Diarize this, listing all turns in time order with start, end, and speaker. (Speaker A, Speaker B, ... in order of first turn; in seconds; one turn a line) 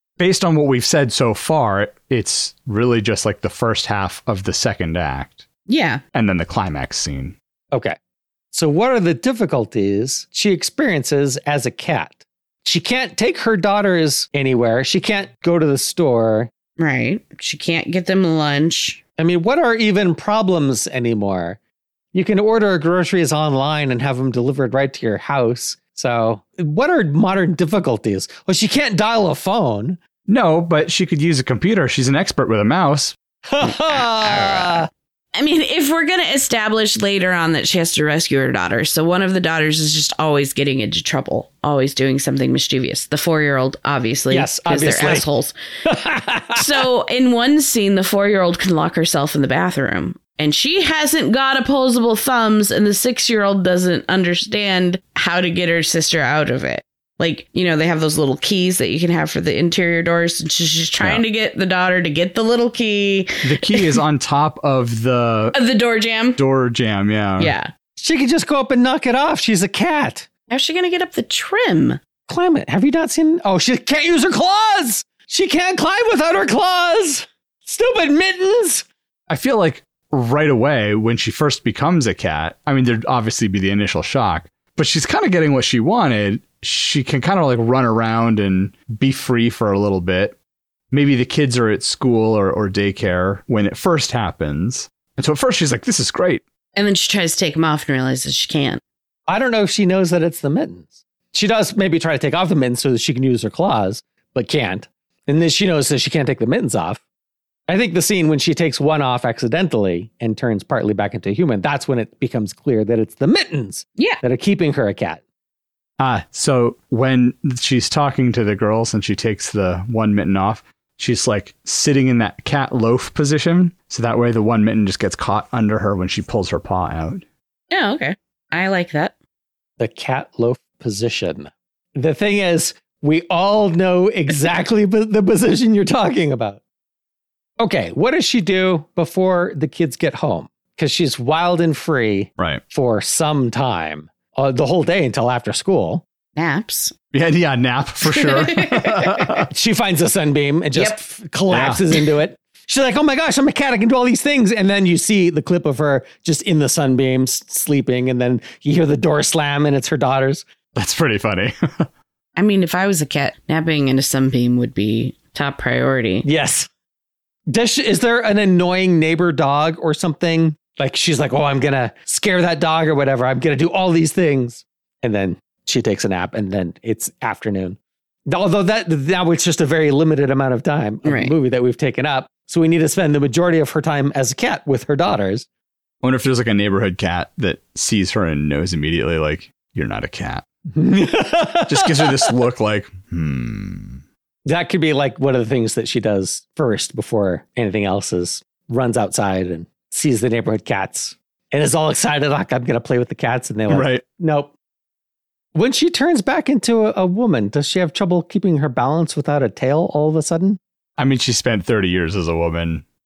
Speaker A: 0.2-5.5
Speaker B: 5.7-6.0
Speaker A: 6.1-7.4
Speaker C: 8.5-16.5
Speaker B: 16.8-19.0
Speaker C: 19.2-21.6
Speaker C: 22.1-30.0
Speaker A: 30.3-33.2
Speaker C: 33.5-34.9
Speaker B: 33.6-45.5
Speaker C: 44.3-45.3
Speaker C: 45.9-46.6
Speaker B: 46.5-63.9
Speaker A: 63.4-65.5
Speaker B: 65.5-66.4
Speaker A: 66.4-67.5
Speaker B: 67.4-67.7
Speaker C: 68.0-70.3
Speaker B: 70.5-72.0
Speaker C: 72.3-78.8
Speaker A: 79.3-90.4
Speaker A: 90.9-96.4
Speaker B: 96.8-98.8
Speaker C: 99.3-107.0
Speaker C: 107.7-115.2
Speaker A: 116.0-127.3
Speaker B: 127.7-129.1
Speaker C: 129.8-136.6
Speaker C: 137.6-146.0
Speaker B: 146.4-146.9
Speaker A: 147.1-149.5
Speaker B: 148.1-149.4
Speaker C: 149.5-160.4
Speaker A: 151.5-151.8
Speaker A: 160.7-161.9
Speaker B: 162.4-166.3
Speaker C: 166.2-166.7
Speaker C: 167.5-185.5
Speaker B: 181.1-181.3
Speaker A: 186.0-190.4
Speaker C: 190.8-192.3
Speaker A: 191.7-194.0
Speaker C: 194.4-204.5
Speaker A: 203.7-204.0
Speaker C: 205.6-210.6
Speaker A: 211.0-212.8